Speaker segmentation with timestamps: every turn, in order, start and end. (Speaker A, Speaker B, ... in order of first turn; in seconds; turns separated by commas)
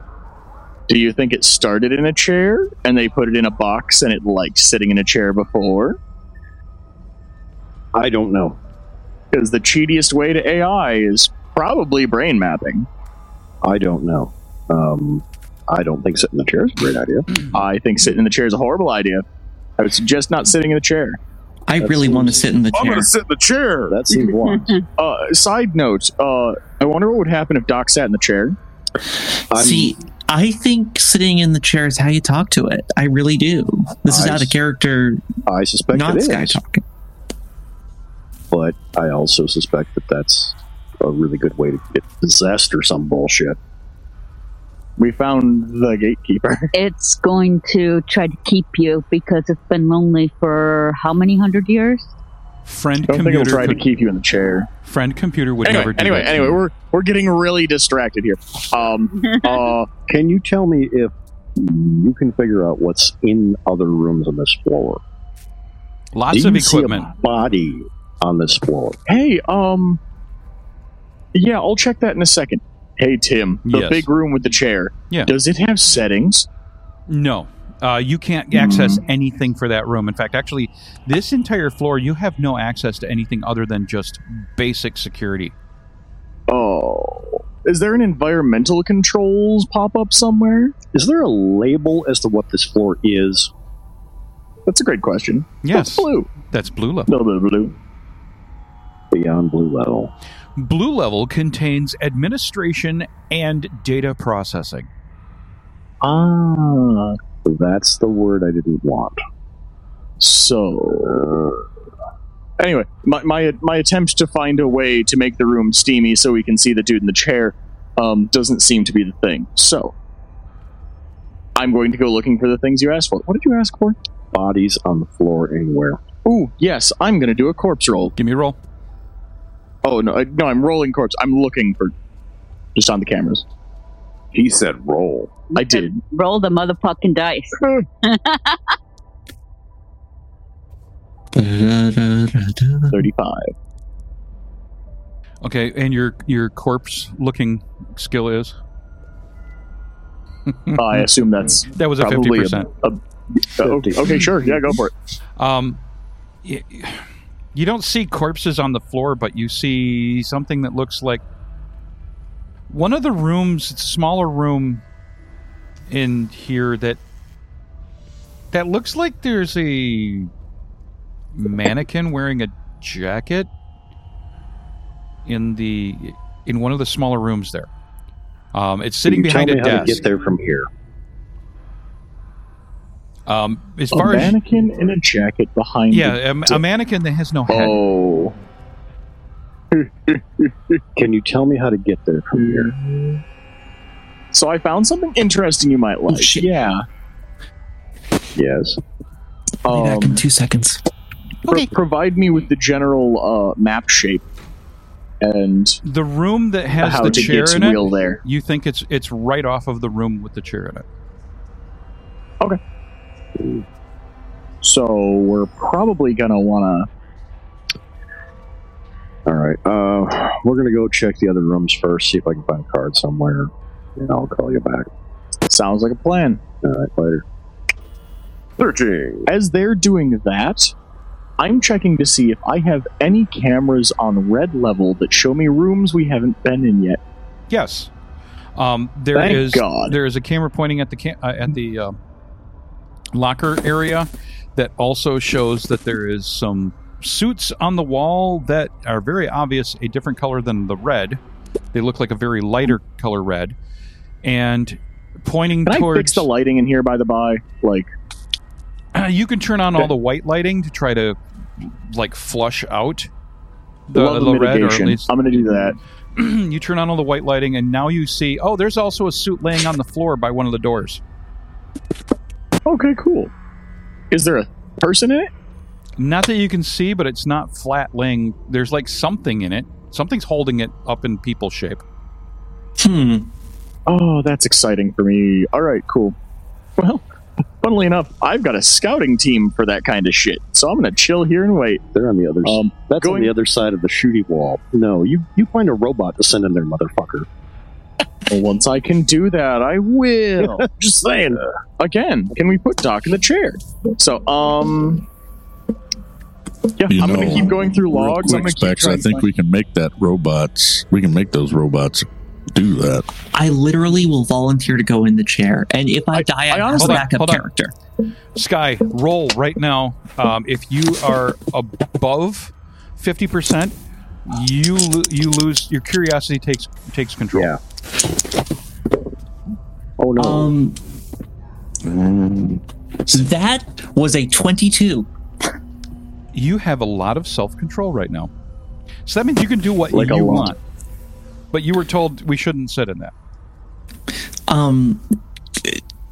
Speaker A: 0.9-6.0, Speaker B: 7.9-8.6, Speaker A: 9.3-12.9, Speaker B: 13.6-17.4, Speaker A: 17.5-19.2, Speaker A: 19.8-21.2, Speaker C: 21.7-23.1, Speaker B: 21.8-22.5, Speaker D: 22.7-24.0, Speaker B: 23.9-24.8, Speaker A: 25.0-28.6, Speaker B: 29.5-30.0, Speaker C: 29.5-35.2, Speaker B: 34.1-34.6, Speaker B: 35.5-36.6, Speaker C: 35.9-36.8, Speaker B: 38.5-43.6, Speaker A: 45.0-46.7, Speaker E: 46.7-52.1, Speaker F: 52.7-53.8, Speaker A: 53.1-54.7, Speaker F: 54.8-56.6, Speaker A: 55.6-59.9, Speaker B: 60.1-65.0, Speaker F: 66.1-67.1, Speaker B: 66.3-69.0, Speaker A: 69.1-70.0, Speaker A: 71.3-76.5, Speaker F: 73.7-74.1, Speaker F: 77.1-85.5, Speaker A: 78.5-79.0, Speaker A: 86.5-90.7, Speaker B: 90.9-93.5, Speaker A: 94.7-96.3, Speaker F: 95.6-97.1, Speaker A: 97.1-97.8, Speaker B: 99.1-100.1, Speaker F: 100.6-104.9, Speaker A: 106.0-107.2, Speaker B: 107.4-109.2, Speaker A: 110.2-111.2, Speaker A: 112.6-119.9, Speaker A: 121.6-124.0, Speaker B: 124.3-126.0, Speaker A: 126.3-128.1, Speaker F: 128.2-128.6, Speaker A: 129.8-131.9, Speaker A: 132.8-133.4, Speaker D: 134.3-135.4, Speaker E: 135.5-138.6, Speaker A: 135.6-136.0, Speaker C: 141.3-143.1, Speaker A: 142.9-143.5, Speaker F: 145.4-148.6, Speaker F: 150.5-150.8, Speaker A: 150.8-153.0, Speaker F: 151.7-152.7, Speaker A: 153.5-154.9, Speaker B: 153.6-154.6, Speaker F: 155.4-155.8, Speaker F: 156.4-161.2, Speaker F: 162.7-164.8, Speaker F: 165.9-167.0, Speaker F: 168.5-170.3, Speaker F: 171.3-173.5, Speaker F: 175.3-177.7, Speaker F: 178.5-180.0, Speaker B: 179.1-180.7, Speaker F: 183.3-184.4, Speaker A: 183.9-186.6, Speaker F: 185.9-187.8, Speaker A: 187.5-188.3, Speaker A: 189.7-190.8, Speaker B: 191.0-192.7, Speaker A: 192.3-193.2, Speaker A: 194.3-196.8, Speaker C: 196.1-196.6, Speaker B: 198.4-198.8, Speaker A: 199.7-200.2, Speaker C: 199.7-200.8, Speaker A: 201.5-204.2, Speaker A: 205.2-205.8, Speaker F: 205.8-210.8, Speaker A: 206.8-208.2, Speaker B: 213.4-213.6, Speaker A: 214.6-216.9, Speaker B: 219.3-224.9, Speaker A: 225.5-226.4, Speaker B: 226.6-227.2, Speaker D: 228.6-229.3, Speaker A: 229.3-230.7, Speaker A: 231.4-237.0, Speaker F: 237.5-237.9, Speaker F: 238.6-242.0, Speaker A: 239.1-239.9, Speaker F: 243.1-251.2, Speaker F: 251.7-253.6, Speaker F: 254.2-256.3, Speaker A: 255.7-257.9, Speaker F: 258.9-263.1, Speaker F: 263.9-265.1, Speaker A: 263.9-265.8, Speaker F: 266.2-271.0, Speaker A: 272.7-273.3, Speaker A: 274.1-275.3, Speaker F: 276.0-281.8, Speaker C: 282.8-283.3, Speaker A: 283.9-286.2, Speaker A: 286.8-287.0, Speaker A: 287.6-291.8, Speaker B: 291.9-297.3, Speaker A: 292.4-293.3, Speaker A: 298.3-300.8, Speaker B: 300.4-301.4, Speaker A: 301.8-305.1, Speaker A: 306.8-309.3, Speaker G: 306.9-313.1, Speaker C: 313.3-317.7, Speaker A: 316.1-317.1, Speaker F: 316.8-317.4, Speaker F: 318.4-323.7, Speaker F: 324.3-327.5, Speaker B: 327.3-327.6, Speaker B: 330.0-330.5, Speaker C: 330.2-330.8, Speaker C: 331.9-335.1, Speaker F: 336.3-338.3, Speaker F: 339.1-340.6, Speaker A: 339.9-340.5, Speaker F: 341.5-343.1, Speaker C: 344.5-345.1